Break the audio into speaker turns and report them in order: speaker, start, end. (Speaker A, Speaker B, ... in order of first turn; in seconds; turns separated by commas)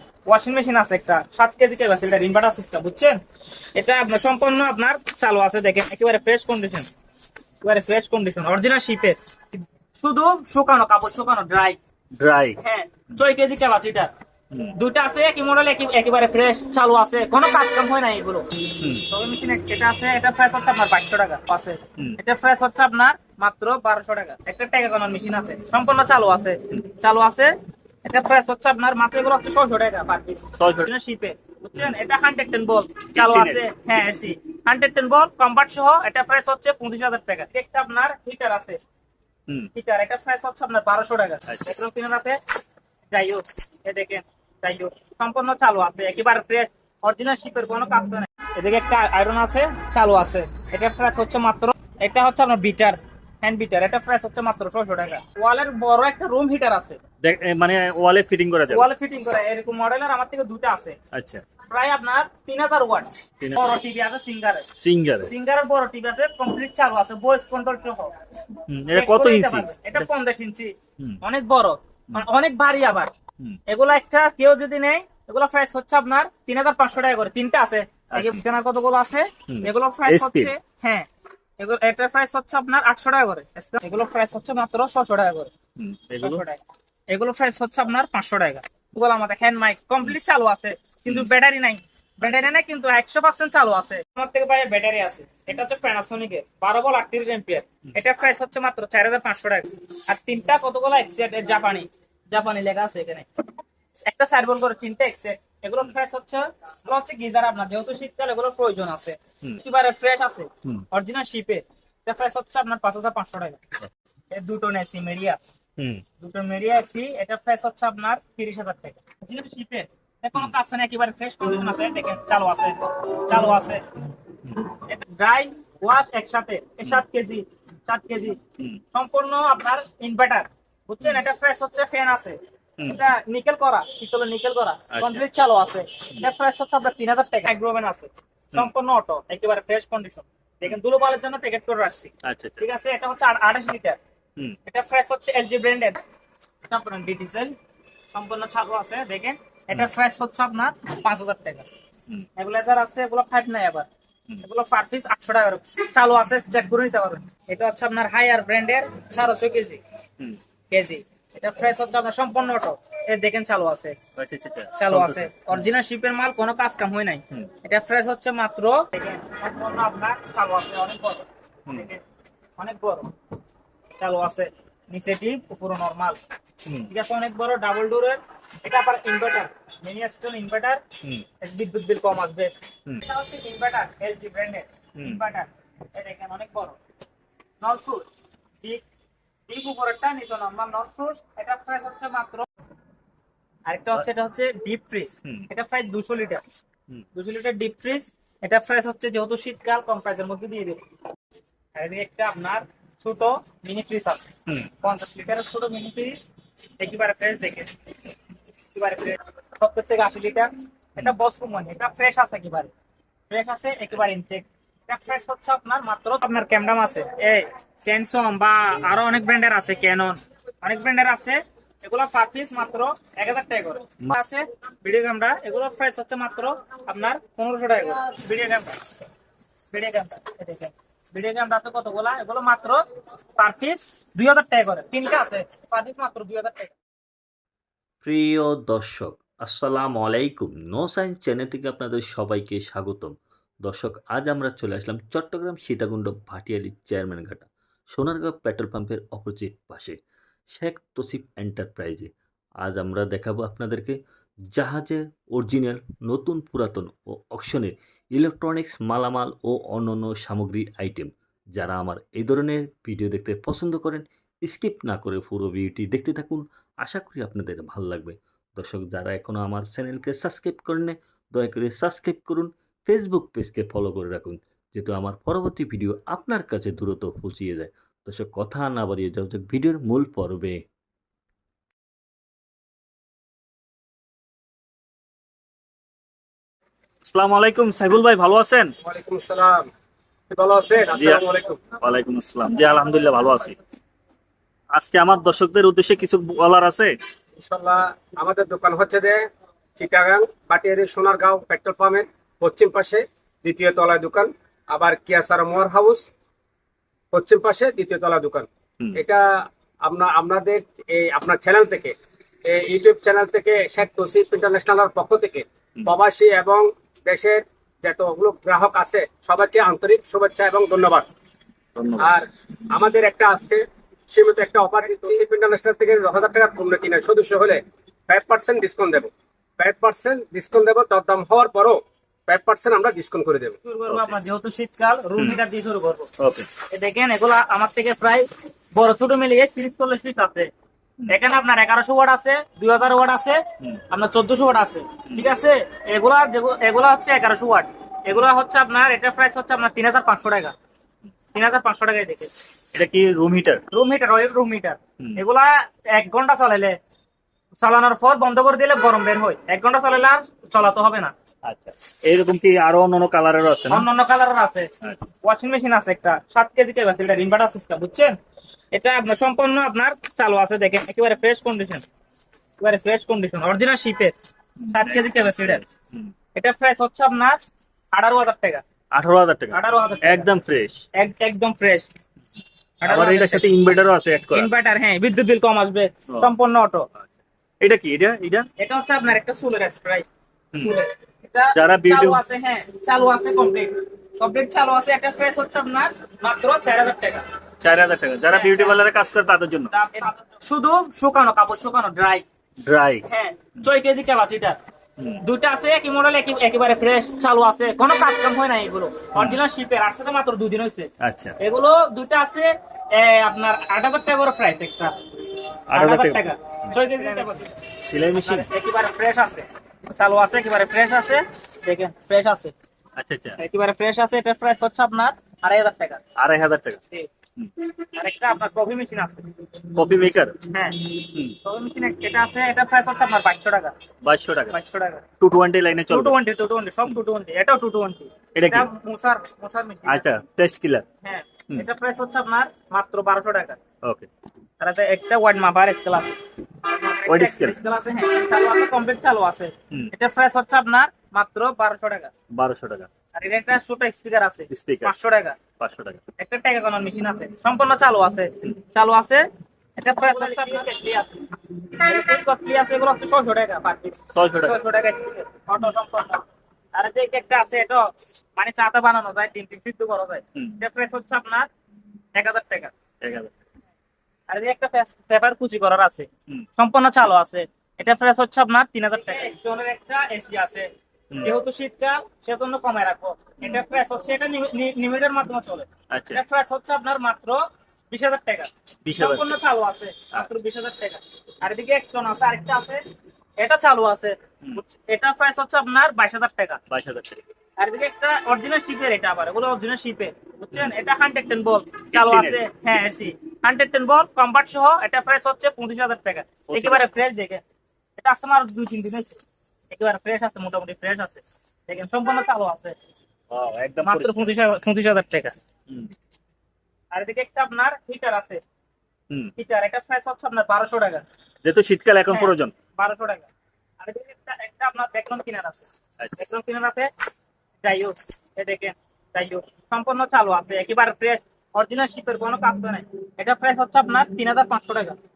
Speaker A: 0.3-3.2, Speaker A: 3.8-6.9, Speaker A: 7.6-11.8, Speaker B: 12.2-12.6, Speaker A: 12.6-14.1, Speaker A: 14.7-18.5, Speaker B: 18.8-19.0, Speaker A: 19.1-38.8, Speaker B: 30.6-30.9, Speaker B: 33.1-33.6, Speaker A: 39.7-42.4, Speaker B: 41.5-41.7, Speaker A: 43.1-57.0, Speaker B: 57.2-58.9, Speaker A: 58.7-61.0, Speaker B: 61.1-61.4, Speaker A: 61.7-64.7, Speaker B: 64.8-65.3, Speaker A: 65.2-68.1, Speaker B: 68.7-70.1, Speaker A: 68.9-73.1, Speaker A: 73.7-81.1, Speaker B: 78.1-78.4, Speaker B: 79.5-80.5, Speaker A: 81.6-85.5, Speaker B: 85.8-86.4, Speaker A: 86.2-103.3, Speaker B: 92.2-92.5, Speaker A: 104.0-113.6, Speaker A: 114.3-115.4, Speaker B: 115.8-116.0, Speaker A: 116.2-123.8, Speaker A: 124.9-128.4, Speaker A: 128.9-144.0, Speaker B: 134.9-135.2, Speaker B: 142.2-142.6, Speaker A: 144.7-146.0, Speaker A: 146.7-147.6, Speaker A: 148.1-151.7, Speaker A: 152.4-153.9, Speaker A: 154.4-159.8, Speaker A: 160.7-164.0, Speaker B: 164.2-165.7, Speaker A: 164.8-172.0, Speaker A: 172.6-173.1, Speaker A: 174.0-176.2, Speaker A: 176.9-180.8, Speaker A: 181.4-186.8, Speaker B: 185.0-185.2, Speaker A: 187.6-188.1, Speaker A: 189.5-192.5, Speaker A: 193.7-196.4, Speaker A: 197.2-200.8, Speaker A: 201.8-204.2, Speaker A: 204.8-206.2, Speaker A: 206.8-207.7, Speaker A: 208.7-212.7, Speaker A: 213.3-228.8, Speaker A: 229.7-232.8, Speaker A: 233.4-236.8, Speaker C: 238.0-250.0, Speaker C: 250.5-254.0, Speaker C: 254.5-280.6, Speaker B: 287.0-288.7, Speaker D: 288.8-289.7, Speaker D: 290.3-291.6, Speaker B: 290.9-293.6, Speaker B: 294.7-296.9, Speaker D: 297.4-299.2, Speaker D: 299.8-306.1, Speaker D: 307.1-321.1, Speaker B: 321.8-322.1, Speaker D: 322.0-333.6, Speaker A: 333.6-336.1, Speaker B: 333.9-334.1, Speaker B: 336.2-336.5, Speaker A: 336.7-340.5, Speaker A: 341.1-350.5, Speaker A: 351.3-352.3, Speaker B: 352.7-353.6, Speaker A: 353.7-356.8, Speaker A: 357.6-361.1, Speaker B: 361.4-363.9, Speaker A: 363.7-364.7, Speaker A: 365.2-368.2, Speaker A: 368.7-371.8, Speaker A: 372.6-374.1, Speaker B: 374.6-376.1, Speaker A: 374.7-375.6, Speaker A: 376.4-377.4, Speaker A: 377.9-378.6, Speaker B: 378.9-380.8, Speaker A: 379.5-380.3, Speaker A: 380.9-381.9, Speaker A: 382.8-383.8, Speaker B: 382.9-384.5, Speaker A: 384.3-386.9, Speaker B: 387.6-388.5, Speaker A: 388.6-397.2, Speaker B: 390.5-390.8, Speaker B: 391.5-392.2, Speaker B: 397.6-399.7, Speaker A: 398.3-398.8, Speaker A: 399.7-402.2, Speaker B: 402.6-403.1, Speaker A: 403.1-404.6, Speaker A: 405.2-414.9, Speaker B: 409.2-409.4, Speaker B: 411.0-411.4, Speaker B: 415.7-418.5, Speaker A: 415.7-417.6, Speaker A: 418.2-422.5, Speaker B: 423.0-423.4, Speaker A: 423.4-426.0, Speaker B: 426.2-426.8, Speaker A: 427.9-429.3, Speaker B: 429.8-430.4, Speaker A: 430.5-433.8, Speaker B: 434.0-434.6, Speaker A: 434.5-435.0, Speaker B: 435.2-436.2, Speaker A: 435.9-440.1, Speaker B: 438.4-438.7, Speaker B: 439.9-440.9, Speaker A: 441.0-443.6, Speaker B: 443.8-444.1, Speaker A: 444.6-446.1, Speaker A: 446.6-452.1, Speaker B: 447.1-447.6, Speaker B: 452.3-452.9, Speaker A: 453.1-455.4, Speaker B: 454.5-454.9, Speaker B: 455.6-456.0, Speaker A: 456.2-459.3, Speaker A: 459.8-471.5, Speaker B: 464.1-464.6, Speaker A: 472.2-472.7, Speaker B: 473.0-473.3, Speaker A: 474.3-480.7, Speaker A: 481.2-492.8, Speaker B: 485.9-486.2, Speaker B: 488.9-489.4, Speaker A: 493.4-496.6, Speaker B: 496.7-497.2, Speaker A: 497.6-507.4, Speaker B: 501.9-502.4, Speaker B: 506.5-506.9, Speaker A: 508.0-509.2, Speaker A: 509.7-512.8, Speaker B: 513.3-514.3, Speaker A: 513.8-515.4, Speaker A: 516.9-518.4, Speaker A: 519.4-521.0, Speaker B: 521.4-522.5, Speaker A: 522.1-523.3, Speaker A: 523.8-525.7, Speaker A: 526.2-526.9, Speaker A: 527.6-535.0